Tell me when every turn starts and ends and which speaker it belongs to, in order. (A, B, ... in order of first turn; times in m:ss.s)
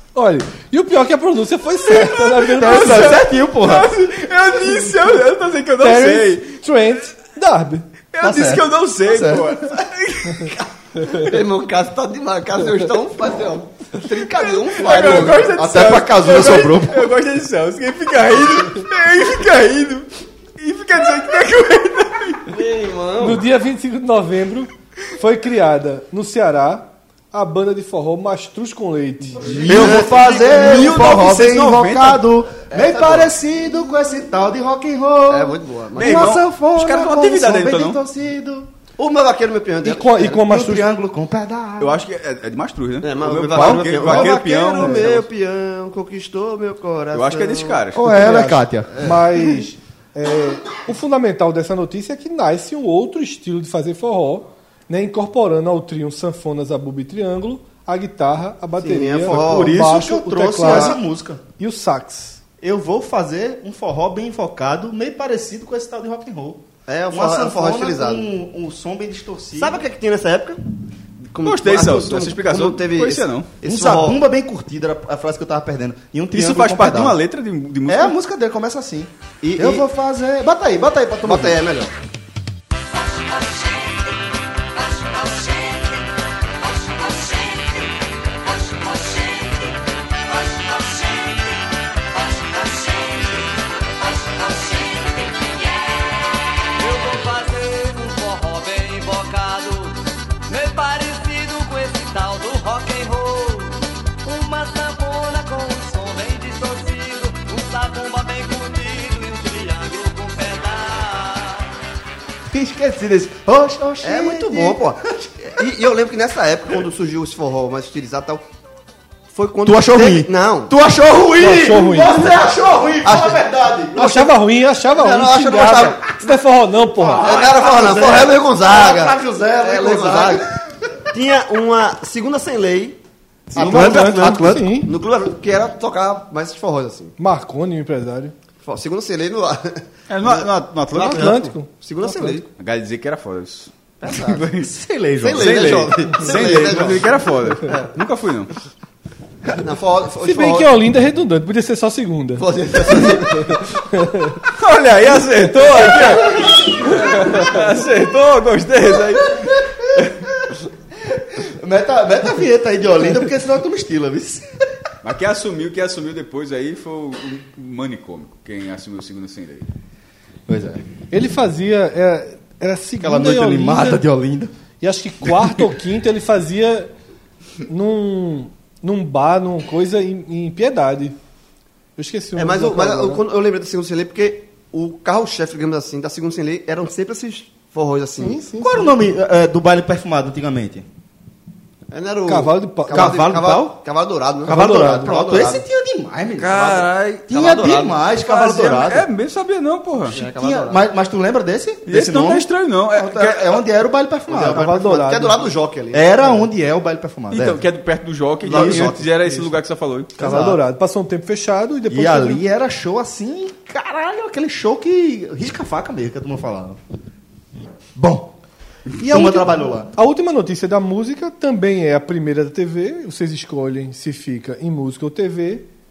0:00.1-0:03.2 A
0:01.9-0:06.6 B
0:02.5-0:03.9 C
0:05.8-0:07.8 A
0:08.1-0:10.5 B
0:08.2-0:09.7 C
0:11.1-0:15.5 D
0:14.2-0:22.4 B
0:15.3-0:17.1 C
0:22.5-0:23.4 D
0:23.2-0:29.5 A
0:29.4-0:31.2 D
0:29.5-0:32.2 B
0:29.6-0:38.7 C
0:32.7-0:33.3 D
0:35.3-0:36.4 D
0:36.0-0:38.0 B
0:39.0-0:40.4 D
0:39.8-0:40.9 A
0:40.2-0:42.0 C
0:41.8-0:45.2 B
0:43.0-0:47.8 D
0:43.5-0:45.2 C
0:47.1-0:48.1 B
0:47.9-0:49.2 C
0:48.1-1:01.0 A
0:58.8-0:59.8 D
0:59.2-1:01.4 C
1:00.6-1:01.0 D
1:01.6-1:02.4 A
1:02.6-1:09.8 C
1:06.9-1:08.3 D
1:09.6-1:10.6 D
1:11.3-1:14.2 D
1:11.4-1:13.5 B
1:13.6-1:17.2 C
1:16.3-1:18.1 B
1:17.9-1:21.6 C
1:19.4-1:19.8 D
1:21.2-1:21.9 D
1:28.8-1:29.4 E
1:36.8-1:39.7 E
1:40.5-1:43.6 E
1:44.3-1:51.3 E
1:52.5-1:55.3 C
1:54.0-1:58.4 D
1:59.3-2:00.7 D
1:59.6-2:04.3 C
2:01.4-2:02.2 A
2:02.1-2:02.4 D
2:03.0-2:04.2 D
2:04.0-2:07.2 A
2:04.9-2:06.4 D
2:07.0-2:10.5 C
2:07.1-2:10.4 D
2:11.1-2:13.0 D
2:13.5-2:14.6 C
2:13.5-2:17.1 D
2:13.5-2:14.9 A
2:17.2-2:18.3 A
2:18.6-2:22.5 D
2:20.1-2:21.4 B
2:21.0-2:22.4 A
2:22.6-2:24.7 B
2:24.0-2:24.5 D
2:24.5-2:26.9 C
2:25.2-2:27.9 D
2:25.3-2:28.5 B
2:29.5-2:30.8 D
2:30.2-2:32.4 A
2:32.4-2:33.6 D
2:33.8-2:34.4 A
2:34.5-2:40.2 B
2:35.7-2:36.1 A
2:41.3-2:44.4 C
2:45.0-2:49.7 B
2:50.5-2:50.9 C
2:51.1-2:54.0 A
2:53.0-2:54.5 C
2:54.8-2:56.9 A
2:57.6-3:01.2 A
3:02.0-3:03.2 A
3:02.4-3:08.4 D
3:08.2-3:09.0 A
3:08.6-3:10.8 C
3:11.9-3:15.6 D
3:12.2-3:13.2 A
3:12.9-3:13.8 C
3:14.4-3:19.1 C
3:16.4-3:18.8 D
3:18.7-3:20.2 B
3:20.1-3:20.8 D
3:20.1-3:24.8 C
3:21.8-3:23.6 B
3:24.3-3:26.4 D
3:24.4-3:25.5 A
3:25.9-3:27.6 C
3:27.3-3:30.1 B
3:28.4-3:29.5 D
3:28.5-3:28.9 C
3:30.2-3:30.6 C
3:30.2-3:32.4 A
3:31.9-3:36.8 C
3:37.9-3:38.3 C
3:39.0-3:39.9 C
3:39.0-3:45.7 A